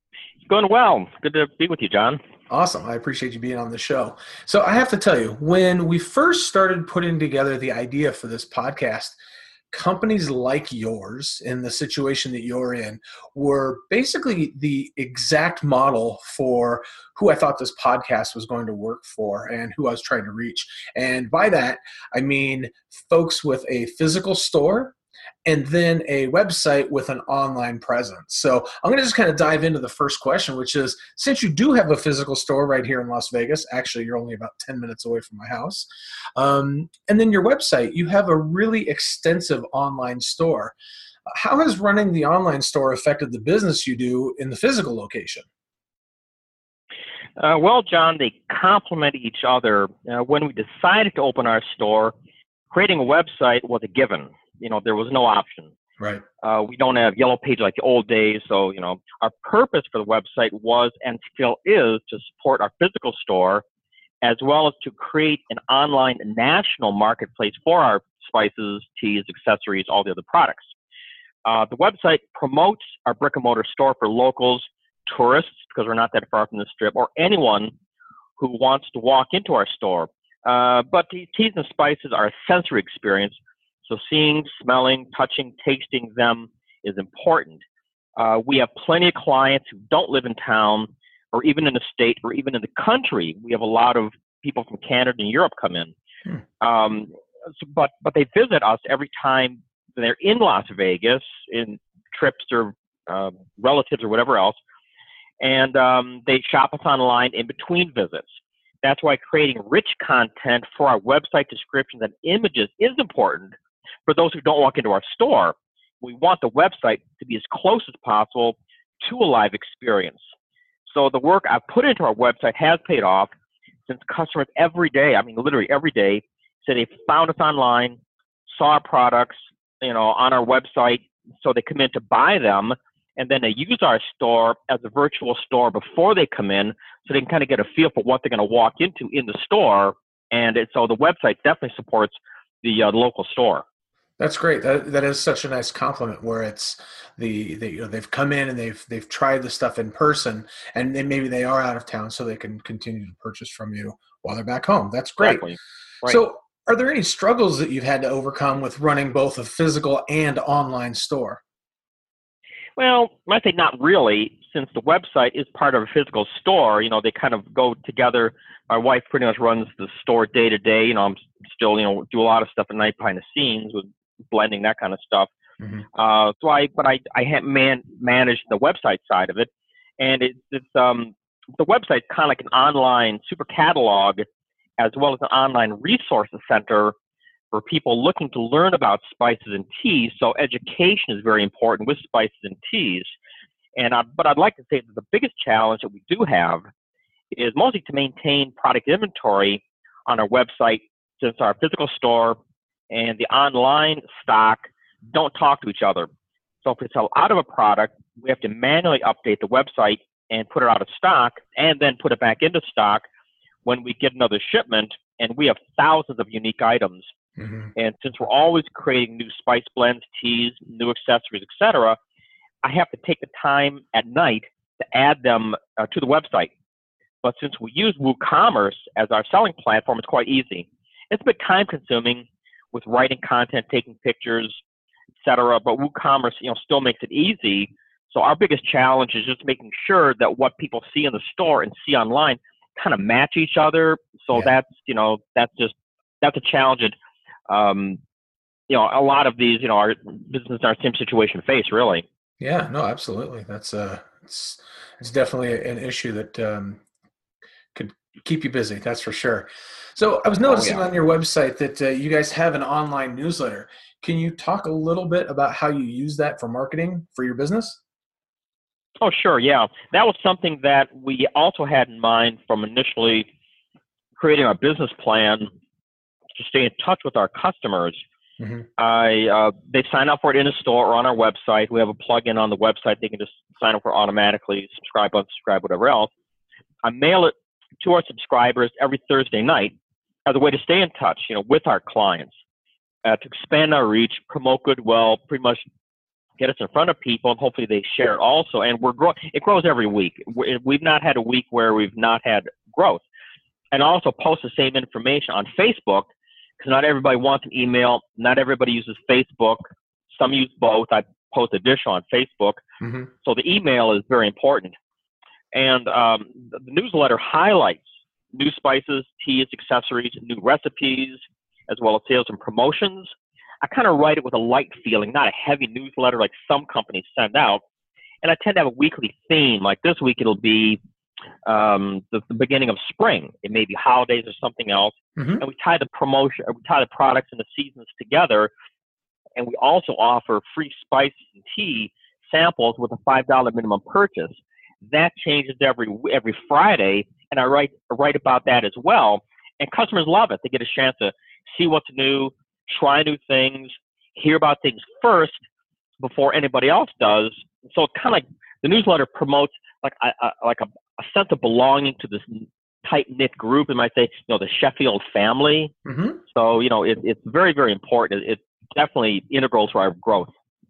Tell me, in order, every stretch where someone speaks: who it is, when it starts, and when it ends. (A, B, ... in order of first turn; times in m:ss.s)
0:00.4-0:02.2 A
0:02.5-0:09.2 B
0:09.7-0:40.7 B
0:41.3-0:45.4 B
0:47.4-0:52.1 A
0:52.7-0:55.7 A
0:56.4-1:03.6 A
1:04.2-1:10.7 A
1:11.4-1:17.7 A
1:18.4-1:23.4 A
1:23.9-1:27.6 A
1:28.2-1:35.9 A
1:36.6-1:44.6 A
1:45.4-1:53.5 A
1:54.0-2:00.2 A
2:00.9-2:03.3 A
2:03.9-2:23.6 A
2:24.2-2:35.4 B
2:35.2-2:36.2 A
2:36.0-2:41.4 B
2:42.8-2:55.3 A
2:55.6-2:55.8 B
2:55.9-3:04.2 A
3:04.8-3:06.9 A
3:07.5-3:13.1 A
3:13.8-3:16.6 A
3:17.3-3:22.4 A
3:22.9-3:26.1 A
3:26.6-3:33.0 A
3:33.6-3:37.1 A
3:37.4-3:37.7 B
3:37.8-3:42.0 A
3:42.6-3:46.5 A
3:47.2-3:54.5 A
3:55.2-4:07.0 A
4:07.5-4:08.0 A
4:08.7-4:12.0 A
4:12.4-4:16.8 B
4:17.8-4:27.8 B
4:20.4-4:20.9 A
4:29.0-4:33.3 A
4:34.2-4:35.5 A
4:36.4-4:38.0 A
4:38.4-4:38.7 B
4:38.8-4:46.1 A
4:46.8-4:49.8 A
4:50.2-4:52.3 A
4:53.0-4:55.6 A
4:56.4-5:03.0 A
5:03.7-5:12.6 A
5:12.8-5:13.1 B
5:13.2-5:14.8 A
5:15.5-5:23.1 A
5:23.6-5:27.6 A
5:28.2-5:30.8 A
5:31.4-5:38.5 A
5:35.2-5:35.4 B
5:39.4-5:55.4 A
5:56.0-6:05.7 A
6:05.8-6:06.2 B
6:06.3-6:10.3 A